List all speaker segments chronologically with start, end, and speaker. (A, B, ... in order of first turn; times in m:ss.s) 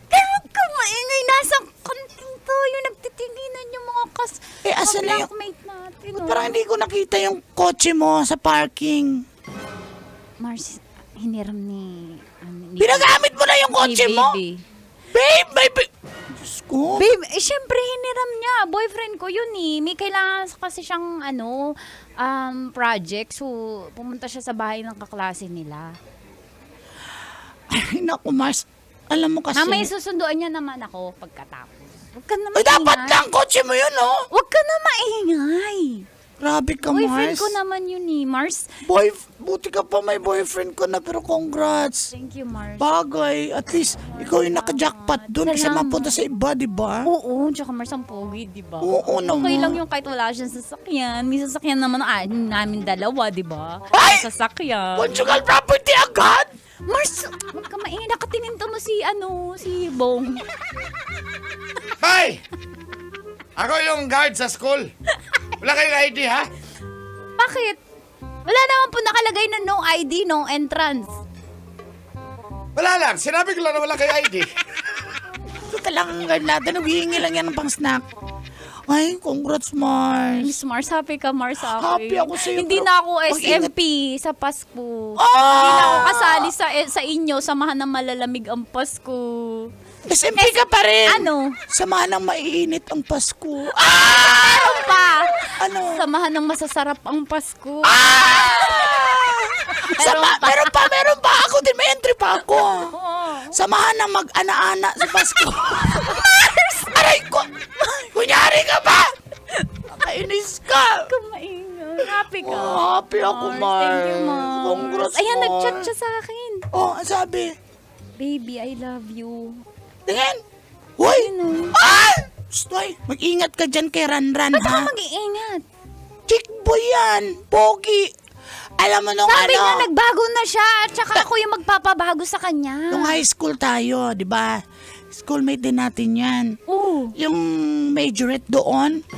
0:00.1-0:06.6 A
0:04.6-0:05.3 B
0:06.1-0:09.2 B
0:10.4-0:13.1 A
0:12.8-0:14.3 B
0:13.8-0:14.6 A
0:15.1-0:17.1 B
0:17.0-0:25.9 A
0:27.7-0:29.9 B
0:29.5-0:33.2 A
0:32.5-0:34.2 B
0:34.3-0:36.0 A
0:36.4-0:37.5 B
0:36.9-0:38.7 A
0:38.8-0:42.1 B
0:42.1-0:42.9 A
0:42.8-0:47.1 B
0:44.1-0:46.2 A
0:47.0-0:55.1 A
0:48.8-0:49.8 B
0:53.9-0:54.2 B
0:55.0-0:56.5 B
0:56.9-1:00.4 A
1:02.0-1:02.4 C
1:03.6-1:04.9 C
1:05.6-1:06.5 C
1:07.4-1:07.8 A
1:08.4-1:11.2 A
1:12.8-1:14.5 C
1:15.7-1:18.0 B
1:18.9-1:20.6 B
1:20.4-1:29.7 A
1:21.8-1:23.7 B
1:25.2-1:26.5 B
1:30.1-1:34.9 B
1:30.4-1:31.6 A
1:33.8-1:38.9 A
1:35.6-1:36.0 B
1:37.8-1:42.9 B
1:39.6-1:40.8 A
1:42.8-1:43.5 A
1:43.5-1:46.3 B
1:45.0-1:46.9 A
1:46.9-1:47.5 B
1:47.8-1:48.1 A
1:48.1-1:49.0 B
1:49.5-1:49.8 A
1:49.9-1:51.1 B
1:51.0-1:56.6 A
1:52.3-1:55.9 B
1:56.7-1:57.5 B
1:58.2-1:59.6 A
2:00.1-2:00.4 B
2:01.0-2:04.9 B
2:01.0-2:01.8 A
2:04.5-2:05.6 A
2:06.3-2:08.1 B
2:08.8-2:09.9 B
2:09.3-2:13.2 A
2:12.9-2:16.6 B
2:16.7-2:17.1 A
2:17.2-2:19.0 B